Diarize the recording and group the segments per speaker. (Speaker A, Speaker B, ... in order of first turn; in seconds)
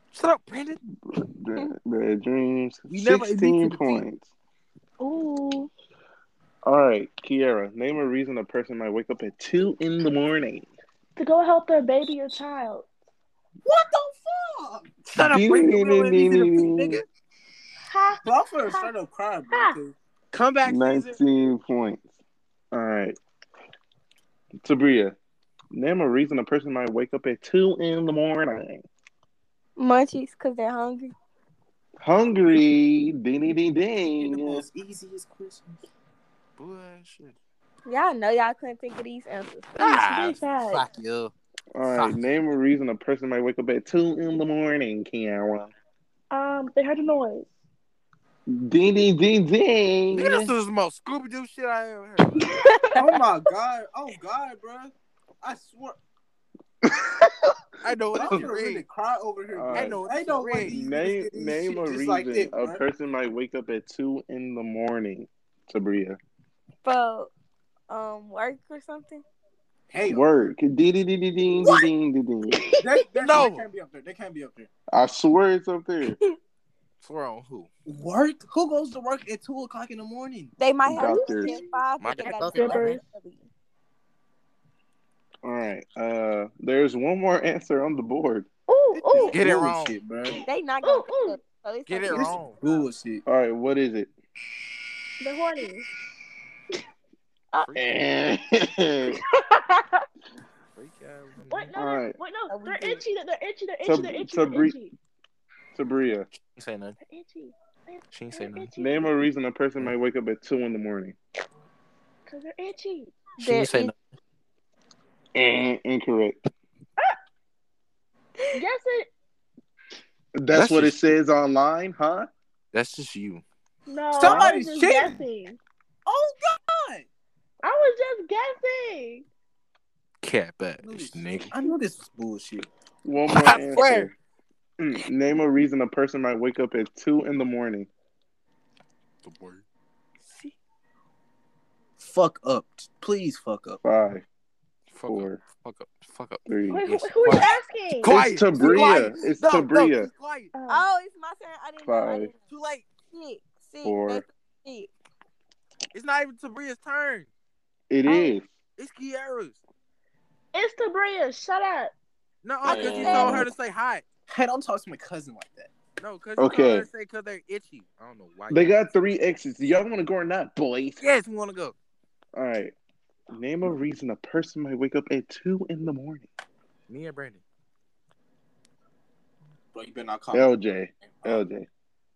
Speaker A: 0.1-0.8, 2.9-4.0, 15.1-17.0, 20.3-21.2, 36.6-37.4, 39.8-41.3, 41.8-42.2, 50.1-52.5, 57.8-58.8, 59.7-60.9, 73.2-73.6, 77.0-77.7, 82.0-83.0, 88.9-90.0, 91.9-92.6, 97.6-98.0, 100.7-101.8, 106.5-107.0, 108.1-108.7, 113.4-114.0, 120.5-121.1, 122.7-123.4, 130.2-131.5, 133.3-134.1, 139.2-139.6, 144.9-150.5, 152.5-152.9, 155.9-157.3, 158.8-159.6, 162.4-164.0, 166.0-168.9, 171.0-171.7, 176.9-177.4
Speaker B: 1.1-4.3, 6.6-10.7, 15.2-17.0, 20.6-22.0, 22.7-23.2, 24.6-25.1, 25.7-28.8, 32.0-34.6, 41.7-45.7, 48.5-50.5, 56.8-57.5, 59.5-60.0, 60.6-66.2, 70.1-72.7, 74.9-76.2, 80.9-81.5, 85.4-88.5, 93.2-94.1, 97.7-99.2, 101.8-102.2, 103.8-104.8, 105.7-106.3, 108.8-111.2, 115.3-116.4, 120.3-122.3, 124.2-124.5, 133.0-134.1, 134.8-137.9, 143.8-144.2, 145.1-145.4, 146.5-146.9, 148.1-150.1, 151.8-152.3, 153.8-154.2, 157.9-158.4, 162.6-163.5, 166.4-166.9, 168.5-171.0, 172.3-172.7, 173.3-176.3, 180.3-181.7
Speaker C: 5.0-5.7, 11.2-12.9, 17.9-18.9, 19.5-19.8, 39.8-40.8, 46.3-47.5, 81.0-81.6, 82.2-83.0, 88.7-89.4, 90.8-91.4, 95.2-95.9, 99.2-100.0, 101.5-104.9, 107.0-109.2, 112.3-113.1, 118.5-119.1, 123.9-125.6, 127.6-129.2, 146.7-149.0, 150.5-150.9, 158.1-158.3, 160.5-161.9
Speaker D: 13.6-14.9, 18.2-19.9, 34.2-35.8, 52.9-56.0, 58.1-62.8, 69.9-70.2, 72.8-74.7, 77.9-80.5, 89.1-90.4, 92.1-93.2, 124.2-125.2, 126.0-127.1, 130.8-132.7, 142.0-143.8, 164.3-165.7, 179.7-180.5, 181.1-181.4
Speaker E: 29.8-31.1, 37.9-39.8, 52.4-53.0, 66.8-67.3, 67.9-69.2, 76.0-76.3, 80.6-83.5, 90.4-92.8, 102.5-103.0, 113.4-113.9, 147.3-147.6, 150.7-152.4, 153.1-154.9, 162.7-163.4